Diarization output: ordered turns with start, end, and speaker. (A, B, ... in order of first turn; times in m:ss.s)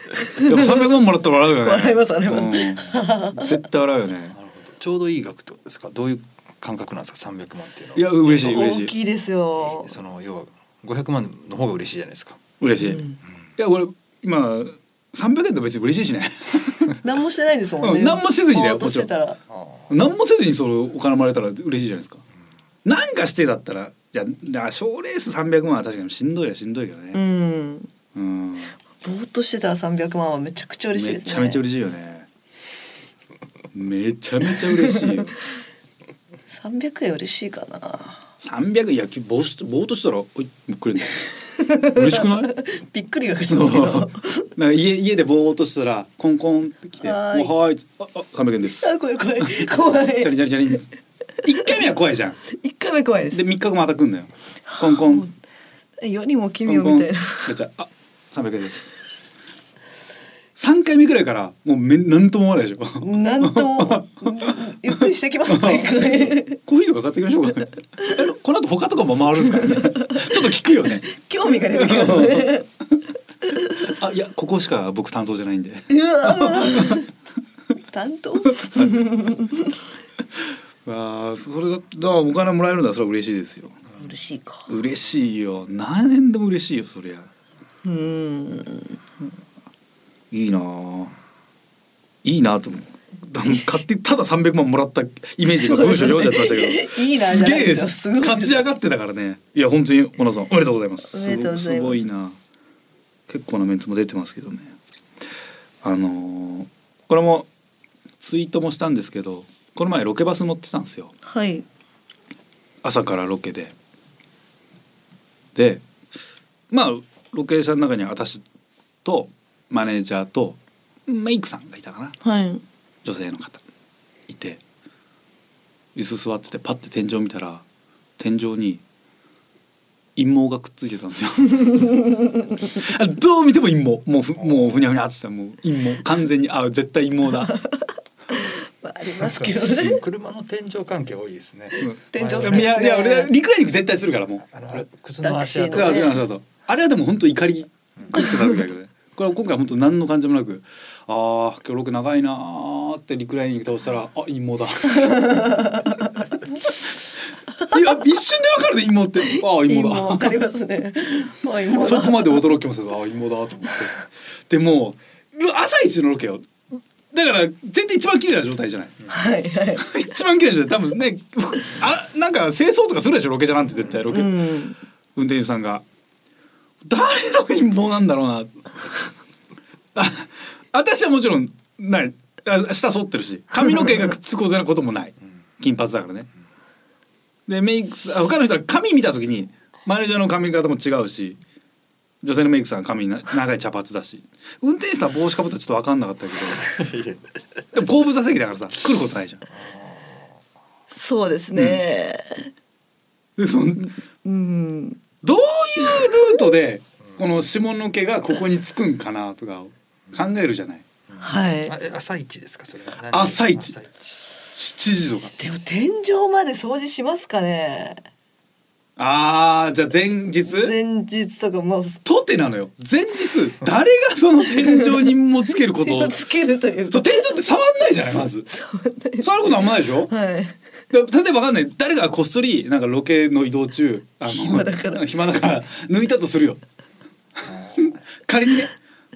0:00.3-0:00.9 A
0:00.3-0:04.4 B
0:01.6-0:03.6 A
0:04.3-0:08.1 C
0:07.9-0:08.9 B
0:08.2-0:09.9 A
0:09.6-0:12.4 C
0:12.6-0:13.0 B
0:12.8-0:13.2 A
0:13.6-0:17.0 B
0:17.0-0:19.4 A
0:17.8-0:19.1 B
0:19.5-0:19.8 C
0:19.9-0:22.2 B
0:22.8-0:27.2 B
0:27.1-0:27.9 A
0:28.1-0:28.7 B
0:29.0-0:31.6 A
0:30.9-0:32.3 B
0:33.7-0:35.3 B
0:34.7-0:35.0 A
0:36.5-0:38.2 A
0:38.4-0:41.2 B
0:41.6-0:44.5 A
0:41.8-0:42.6 B
0:43.5-0:50.9 B
0:47.0-0:47.5 A
0:48.8-0:50.4 A
0:51.4-0:52.4 B
0:52.5-0:53.4 A
0:53.3-0:55.3 B
0:54.7-0:55.3 A
0:56.0-0:57.5 A
0:56.6-0:58.9 B
1:00.6-1:11.1 B
1:03.0-1:06.6 A
1:09.6-1:10.4 A
1:11.0-1:12.6 A
1:11.7-1:12.6 B
1:13.5-1:13.9 A
1:13.8-1:17.0 B
1:15.9-1:17.1 A
1:17.9-1:19.8 A
1:18.6-1:19.0 B
1:20.8-1:23.8 B
1:24.0-1:24.7 A
1:24.7-1:27.3 B
1:27.8-1:29.0 A
1:30.3-1:31.1 B
1:32.2-1:42.4 B
1:35.6-1:38.6 A
1:41.1-1:42.0 A
1:43.3-1:44.7 B
1:45.8-1:47.5 B
1:48.2-1:51.1 B
1:51.2-1:51.6 A
1:52.8-1:53.7 B
1:55.5-1:55.8 B
1:56.7-1:58.4 B
1:59.0-2:02.2 B
2:02.2-2:02.6 A
2:03.0-2:03.6 B
2:04.3-2:04.6 B
2:05.9-2:07.6 B
2:08.2-2:08.8 B
2:10.2-2:11.9 B
2:12.6-2:17.5 B
2:14.4-2:14.7 C
2:17.5-2:20.0 A
2:19.2-2:22.8 C
2:21.8-2:24.8 B
2:22.1-2:23.3 A
2:24.5-2:26.1 C
2:25.2-2:26.2 A
2:25.7-2:35.8 B
2:35.2-2:35.9 A
2:37.7-2:40.4 B
2:39.3-2:42.4 A
2:41.7-2:46.5 B
2:47.1-2:48.9 B
2:49.1-2:49.9 A
2:49.8-2:54.4 B
2:54.1-2:54.8 A
2:55.2-2:55.8 B
2:56.8-2:58.6 B
2:59.9-3:06.3 B
3:07.5-3:11.4 B
3:12.2-3:16.7 B
3:16.8-3:17.2 C
3:17.7-3:19.4 B
3:20.9-3:22.5 A
3:21.5-3:21.8 B
3:23.4-3:23.9 B
3:24.2-3:25.0 A
3:25.2-3:30.8 B
3:31.1-3:34.2 C
3:31.2-3:31.7 A
3:33.1-3:33.7 B
3:34.5-3:35.3 B
3:35.4-3:38.0 A
3:39.0-3:40.7 B
3:40.5-3:42.0 A
3:42.0-3:46.2 B
3:44.5-3:45.1 A
3:45.7-3:47.3 A
3:46.9-3:48.5 B
3:48.5-3:50.6 A
3:49.2-3:50.1 B
3:50.9-3:56.6 B
3:54.3-3:55.0 A
3:57.4-3:58.7 B